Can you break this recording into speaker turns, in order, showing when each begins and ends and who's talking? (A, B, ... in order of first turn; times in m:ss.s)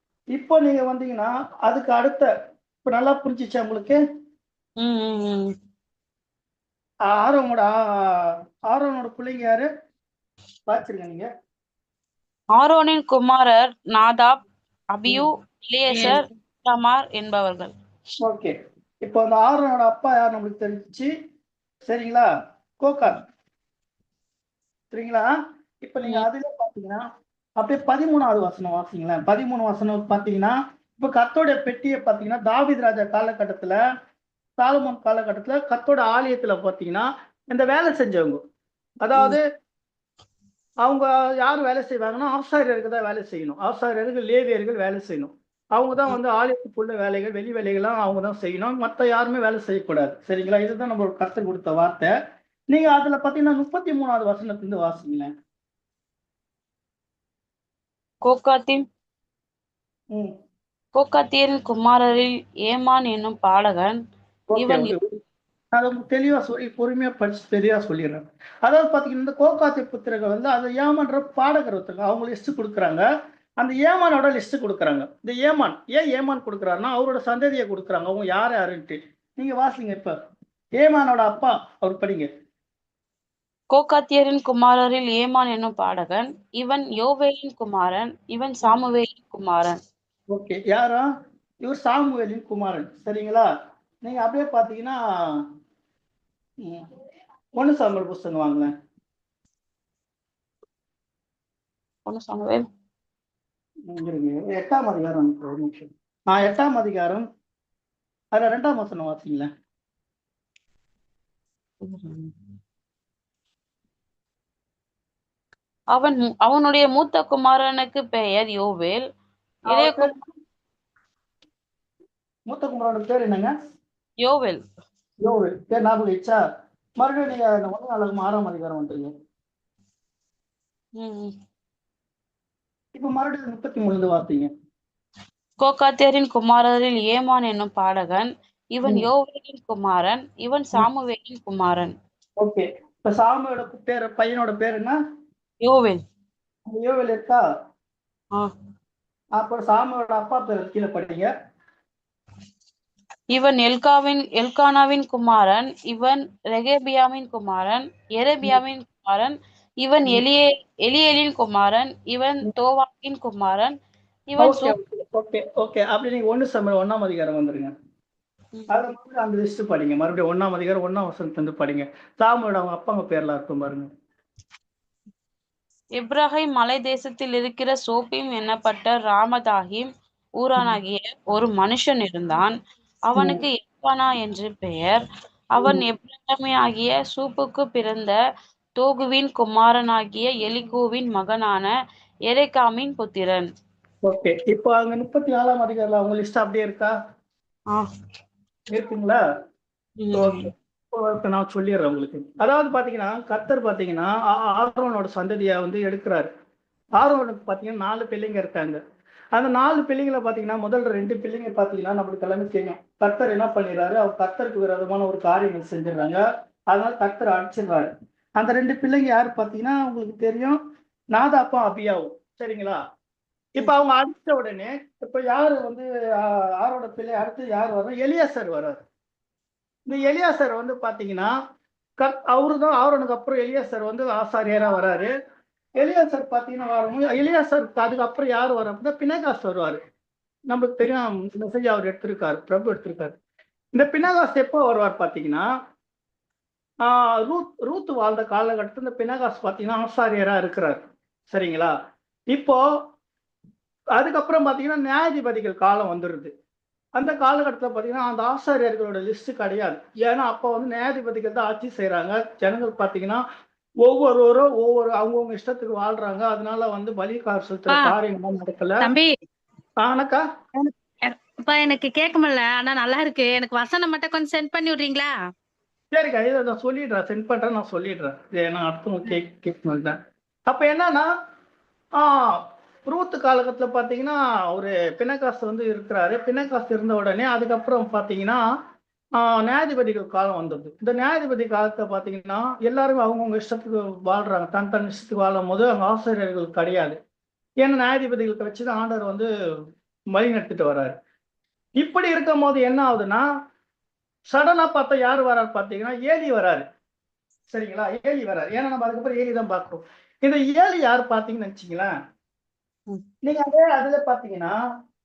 0:00.3-0:02.3 A
0:02.8-0:04.0 A
0:04.8-0:05.5 B
0:07.1-0:09.7 A
0:10.7-0:11.3 A
0:12.6-0:17.7 B
0:18.2-0:21.1 A
0:21.8-0:22.3 A
0:22.8-0:23.2 A
0:24.9-0:25.2 A
0:25.8-0:27.0 A
0:27.6-0:33.8 A
0:34.6-0:38.4 A
0:39.0-0:39.4 A
0:40.8-0:52.1 A
0:52.7-0:55.3 A
0:58.2-0:58.8 B
1:00.9-1:04.0 B
1:04.5-1:05.2 A
1:04.6-1:04.9 B
1:05.7-1:13.0 A
1:13.6-1:20.1 A
1:20.8-1:22.3 A
1:23.7-1:29.8 B
1:30.3-1:31.0 A
1:31.6-1:33.5 A
1:34.0-1:35.4 A
1:37.6-1:38.7 A
1:42.0-1:42.6 B
1:43.9-1:47.2 A
1:48.3-1:49.5 A
1:51.8-1:52.3 B
1:55.9-1:59.0 B
1:59.7-2:00.1 B
1:59.7-2:00.2 A
2:02.5-2:03.5 A
2:04.2-2:04.6 B
2:05.2-2:06.4 A
2:07.0-2:09.1 A
2:11.0-2:11.3 B
2:12.9-2:14.5 A
2:15.6-2:21.9 B
2:18.8-2:19.1 A
2:22.4-2:25.0 A
2:25.6-2:26.0 B
2:26.7-2:27.4 A
2:29.4-2:31.3 A
2:33.3-2:43.7 B
2:44.3-2:44.8 B
2:44.4-2:47.7 A
2:48.7-2:53.9 A
2:56.0-2:59.9 B
3:00.4-3:02.5 B
3:03.1-3:05.0 B
3:03.2-3:03.4 A
3:05.5-3:08.2 B
3:05.6-3:05.9 A
3:08.8-3:11.7 B
3:12.3-3:13.5 B
3:14.0-3:16.9 A
3:18.7-3:19.2 A
3:20.0-3:20.5 B
3:20.1-3:26.3 A
3:27.0-3:28.8 A
3:29.3-3:40.6 A
3:41.1-3:42.8 A
3:43.6-3:48.8 A
3:49.9-3:51.3 A
3:52.0-3:55.1 A
3:55.8-3:59.8 A
4:00.5-4:03.2 A
4:03.7-4:05.5 A
4:06.8-4:11.7 A
4:12.3-4:12.6 A
4:14.0-4:16.3 A
4:17.0-4:23.2 A
4:23.8-4:28.9 A
4:27.7-4:27.9 C
4:28.8-4:29.1 C
4:29.8-4:30.2 A
4:30.6-4:35.1 C
4:35.9-4:40.0 A
4:40.5-4:41.1 A
4:42.0-4:48.4 A
4:49.2-4:57.0 A
4:57.6-4:59.3 A
5:00.1-5:00.9 A
5:01.8-5:03.2 A
5:04.3-5:06.6 A
5:07.5-5:11.9 A
5:13.2-5:14.5 A